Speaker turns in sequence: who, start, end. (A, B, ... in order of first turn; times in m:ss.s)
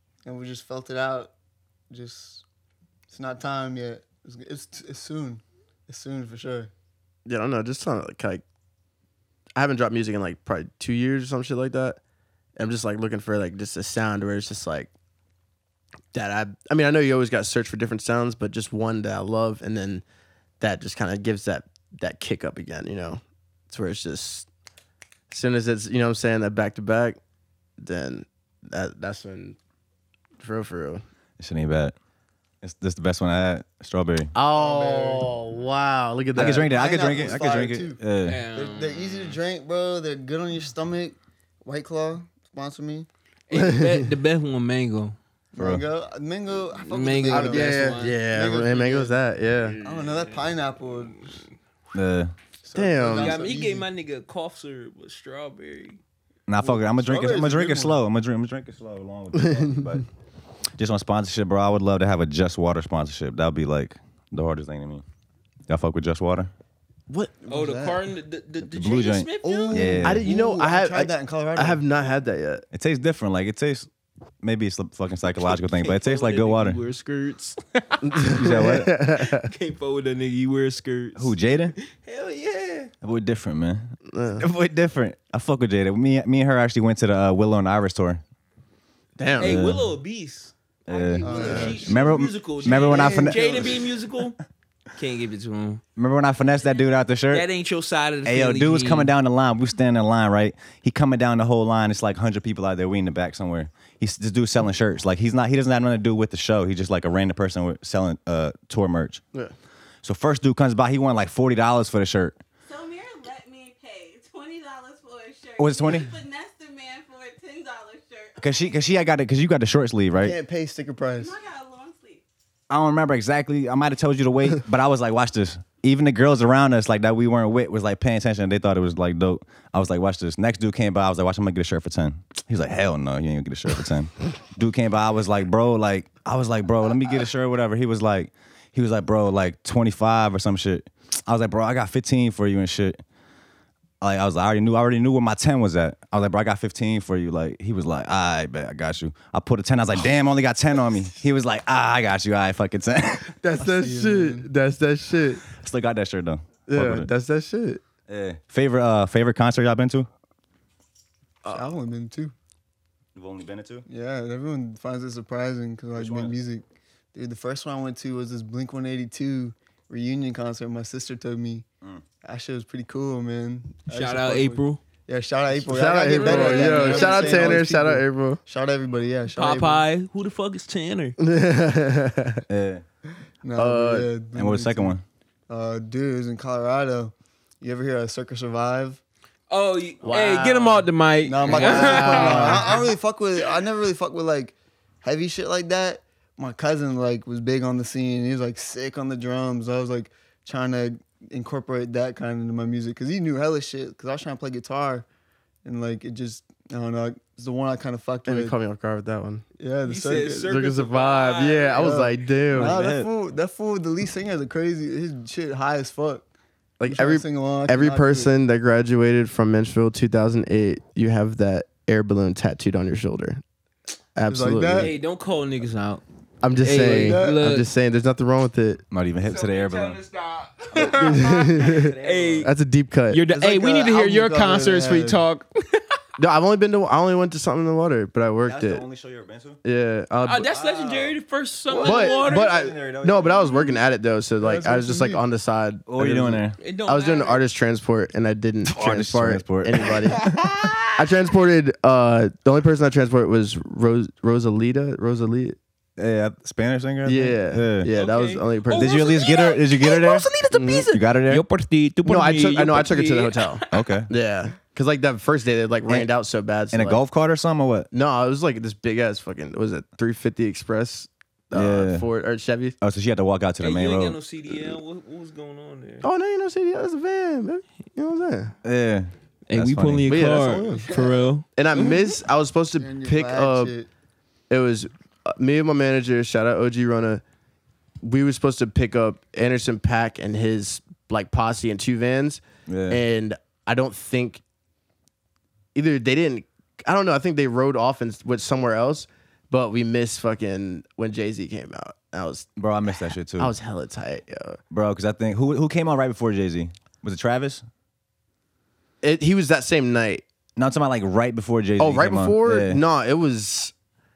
0:00.2-0:01.3 A
0:01.9-0:02.4 A
0:03.1-0:06.7 A
0:07.3-0:08.4 B
0:09.6-0:12.0 B
0:12.6-0:14.9 B
0:16.1-0:20.0 B
0:20.6-0:24.5 B
0:25.3-0:27.2 B
0:27.8-0:29.6 B
0:30.4-0:31.0 B
0:31.4-0:32.0 C
0:32.6-0:34.3 C
0:34.3-0:36.7 B
0:34.5-0:35.3 A
0:36.4-0:38.4 C
0:36.7-0:38.0 A
0:38.3-0:39.4 D
0:38.5-0:43.1 A
0:43.5-0:45.2 D
0:43.5-0:44.1 B
0:45.5-0:49.2 A
0:45.6-0:45.8 C
0:46.8-0:48.2 D
0:47.3-0:49.8 B
0:49.8-0:51.4 A
0:49.9-0:50.4 D
0:51.9-0:52.4 C
0:52.6-0:53.9 A
0:52.7-0:53.4 B
0:53.1-0:56.0 D
0:56.5-1:00.0 C
0:56.6-0:58.0 A
0:59.3-1:00.0 B
1:00.8-1:05.0 C
1:05.7-1:06.5 C
1:07.1-1:07.4 B
1:07.4-1:08.0 A
1:07.5-1:09.9 D
1:08.7-1:10.3 C
1:09.4-1:11.8 A
1:10.0-1:12.6 B
1:12.7-1:13.9 C
1:14.4-1:16.8 C
1:15.4-1:22.9 D
1:18.0-1:19.5 B
1:18.4-1:18.9 C
1:21.1-1:21.8 C
1:23.0-1:28.2 C
1:24.1-1:24.5 B
1:29.2-1:29.5 B
1:29.4-1:34.4 D
1:29.4-1:29.9 C
1:30.9-1:33.7 C
1:31.2-1:32.1 A
1:31.3-1:31.8 B
1:32.9-1:33.7 A
1:34.9-1:35.8 D
1:36.0-1:37.5 C
1:36.5-1:37.2 E
1:37.3-1:39.1 D
1:38.2-1:49.2 C
1:50.0-1:52.4 C
1:52.6-1:58.8 E
1:55.6-1:56.1 C
1:58.4-2:00.4 C
2:00.2-2:01.4 A
2:01.2-2:02.2 E
2:02.7-2:23.0 C
2:24.0-2:33.4 C
2:33.4-2:35.4 B
2:33.6-2:34.5 A
2:35.5-2:37.1 C
2:36.7-2:37.8 B
2:38.1-2:40.1 C
2:41.5-2:42.3 A
2:43.1-2:43.9 C
2:43.9-2:51.7 A
2:45.9-2:46.4 C
2:52.2-2:59.8 A
2:53.9-2:54.8 D
2:55.5-2:58.4 B
2:56.2-2:57.6 D
2:59.3-3:01.2 D
3:01.2-3:02.4 B
3:02.5-3:02.8 C
3:03.4-3:05.0 A
3:03.6-3:04.1 B
3:04.4-3:05.0 C
3:05.5-3:09.0 A
3:09.5-3:12.8 D
3:10.0-3:10.9 B
3:11.2-3:25.1 A
3:11.5-3:12.8 B
3:25.6-3:28.6 A
3:28.3-3:29.4 B
3:29.6-3:30.5 A
3:29.8-3:32.0 D
3:30.5-3:32.8 B
3:31.8-3:36.2 A
3:32.5-3:33.1 C
3:36.8-3:43.4 B
3:36.8-3:38.3 A
3:44.1-3:44.9 B
3:44.3-3:44.9 A
3:44.8-3:46.0 D
3:46.4-3:48.8 B
3:46.6-3:47.7 D
3:46.8-3:47.4 A
3:48.9-3:50.0 C
3:49.2-3:52.5 D
3:50.7-3:53.2 B
3:50.8-3:52.5 C
3:53.1-3:56.0 D
3:53.3-3:55.2 A
3:56.2-3:58.8 B
3:58.4-3:59.6 C
3:59.6-4:00.5 B
4:00.2-4:02.6 D
4:00.4-4:01.2 C
4:01.7-4:03.6 C
4:01.7-4:10.2 B
4:04.4-4:05.2 A
4:05.9-4:06.6 C
4:06.6-4:07.4 D
4:08.7-4:10.8 C
4:10.1-4:10.9 D
4:11.0-4:15.6 B
4:16.0-4:17.9 C
4:17.1-4:19.2 B
4:17.9-4:23.8 D
4:18.7-4:20.3 C
4:20.5-4:20.9 B
4:20.9-4:21.4 C
4:22.0-4:27.0 B
4:23.7-4:24.1 C
4:26.7-4:27.9 C
4:27.9-4:32.8 B
4:31.5-4:32.1 C
4:32.8-4:34.2 C
4:33.6-4:36.1 D
4:36.0-4:38.5 B
4:38.6-4:40.2 C
4:39.5-4:42.1 D
4:40.1-4:40.9 B
4:40.7-4:41.3 A
4:41.6-4:43.7 B
4:42.8-4:43.9 A
4:44.5-4:47.2 B
4:48.0-4:54.4 B
4:52.7-4:53.0 C
4:55.7-5:02.5 B
5:02.6-5:03.5 C
5:03.3-5:04.6 B
5:04.7-5:07.6 C
5:09.0-5:10.2 B
5:10.6-5:12.8 C
5:11.8-5:13.7 B